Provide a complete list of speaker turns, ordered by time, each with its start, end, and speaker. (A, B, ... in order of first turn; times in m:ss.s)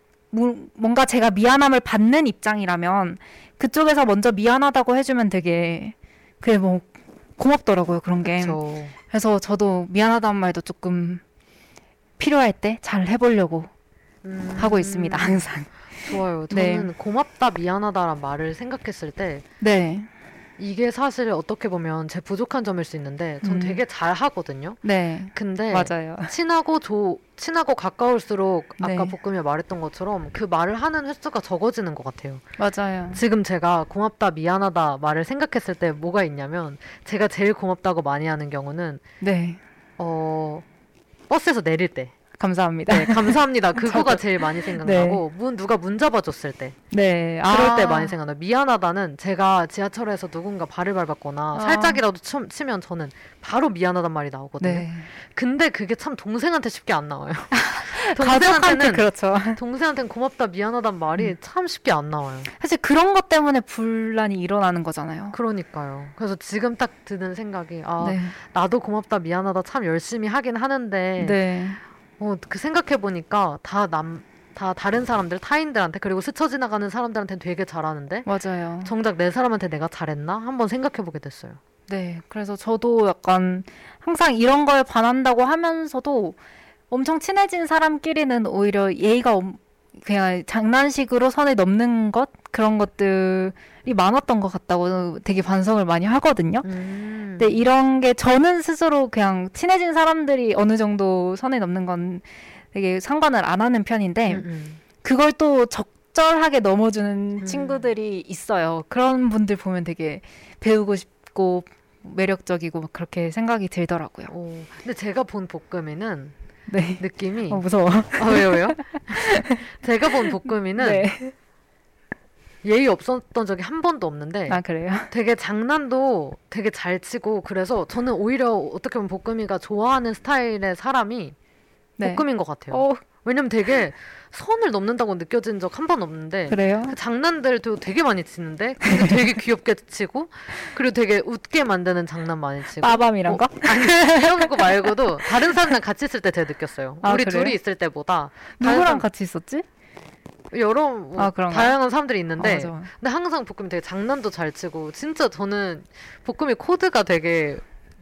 0:00.3-0:06.9 A
0:07.4-0:11.2 A
0:08.3-0:08.9 B
0:12.2-0:13.7 A
0:14.2-0:15.4 B
0:14.6-0:16.9 A
0:16.0-0:19.4 B
0:19.6-0:20.1 A
0:20.6-0:24.8 B
0:23.4-0:23.8 A
0:24.8-0:26.3 A
0:25.3-0:32.4 B
0:28.8-0:29.1 A
0:32.6-0:33.2 A
0:33.1-0:39.0 B
0:39.2-0:39.6 A
0:40.0-0:40.6 B
0:41.3-0:42.1 B
0:42.4-0:45.2 A
0:42.9-0:46.8 B
0:46.9-0:48.1 A
0:47.5-1:02.5 B
0:51.5-0:52.0 A
0:54.6-0:55.1 A
0:57.5-0:59.6 A
1:02.6-1:05.4 A
1:05.3-1:11.4 B
1:08.0-1:08.4 A
1:11.2-1:11.8 A
1:12.2-1:18.2 B
1:18.2-1:18.9 A
1:18.8-1:21.6 B
1:21.9-1:26.4 A
1:26.9-1:36.6 A
1:36.6-1:37.6 B
1:37.4-1:44.4 A
1:44.3-1:44.8 B
1:45.0-1:54.3 A
1:47.4-1:47.9 B
1:54.3-1:56.3 B
1:56.7-1:59.6 A
1:57.0-2:01.1 B
2:00.8-2:01.3 A
2:02.6-2:11.4 B
2:04.5-2:05.1 A
2:12.0-2:13.0 A
2:12.0-2:29.0 B
2:16.5-2:17.0 A
2:22.8-2:24.5 A
2:27.0-2:27.6 A
2:28.6-2:29.6 A
2:30.5-2:37.6 B
2:31.2-2:31.7 A
2:32.4-2:32.9 A